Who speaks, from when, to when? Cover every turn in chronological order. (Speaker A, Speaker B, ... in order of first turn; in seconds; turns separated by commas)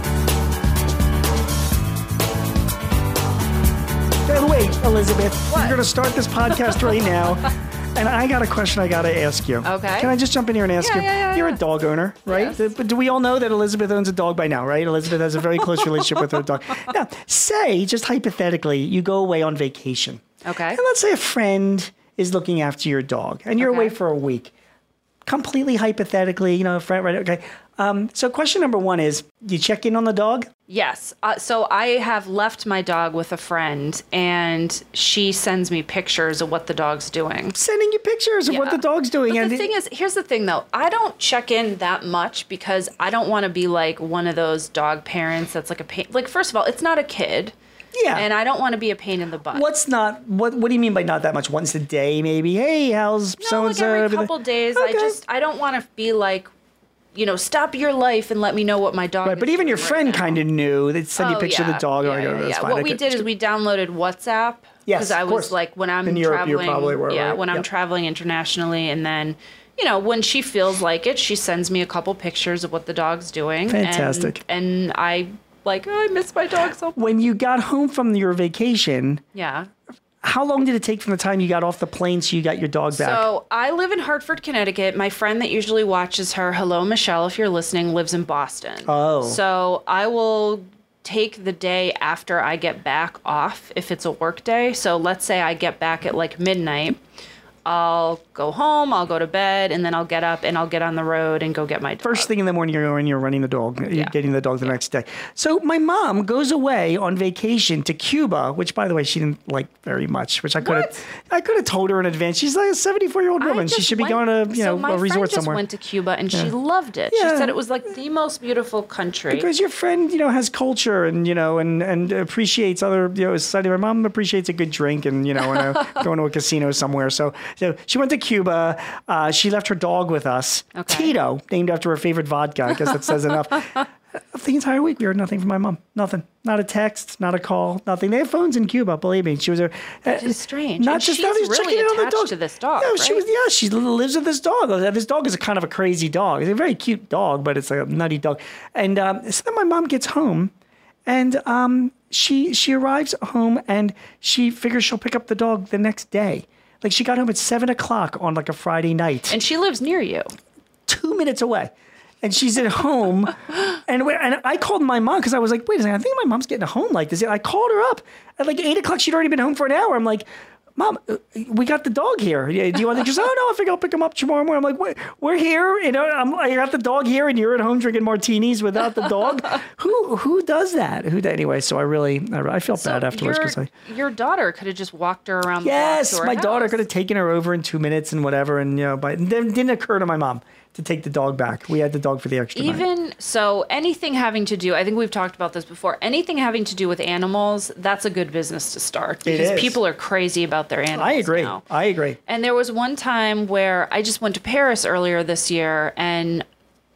Speaker A: 4.2-24.5, Speaker B: 5.5-5.8, Speaker B: 9.6-10.1, Speaker B: 10.8-11.6, Speaker B: 12.3-12.6, Speaker B: 15.8-16.4, Speaker B: 20.4-20.8, Speaker B: 23.6-23.9, Speaker A: 25.2-30.5, Speaker B: 30.7-37.5, Speaker A: 37.5-39.7, Speaker B: 38.5-47.5, Speaker A: 47.9-48.3, Speaker B: 48.1-49.6, Speaker A: 49.5-55.2, Speaker B: 53.4-56.5, Speaker B: 57.1-60.4, Speaker A: 59.2-63.3, Speaker B: 61.1-77.0, Speaker A: 64.9-67.7, Speaker A: 73.7-74.4, Speaker A: 77.0-79.2, Speaker B: 79.3-79.7, Speaker A: 80.2-83.2, Speaker B: 82.9-97.0, Speaker A: 88.8-89.4, Speaker B: 97.6-102.3, Speaker A: 102.0-115.6, Speaker B: 103.9-104.8, Speaker B: 110.6-111.0, Speaker B: 113.4-119.5, Speaker A: 117.1-117.6, Speaker A: 119.3-150.5, Speaker B: 130.7-131.1, Speaker B: 140.1-143.2, Speaker A: 151.1-159.4, Speaker B: 159.3-160.3, Speaker A: 160.9-183.7, Speaker B: 182.7-186.8, Speaker A: 185.6-192.9, Speaker B: 192.5-201.6, Speaker A: 199.2-199.8, Speaker A: 200.9-202.2, Speaker B: 202.2-206.4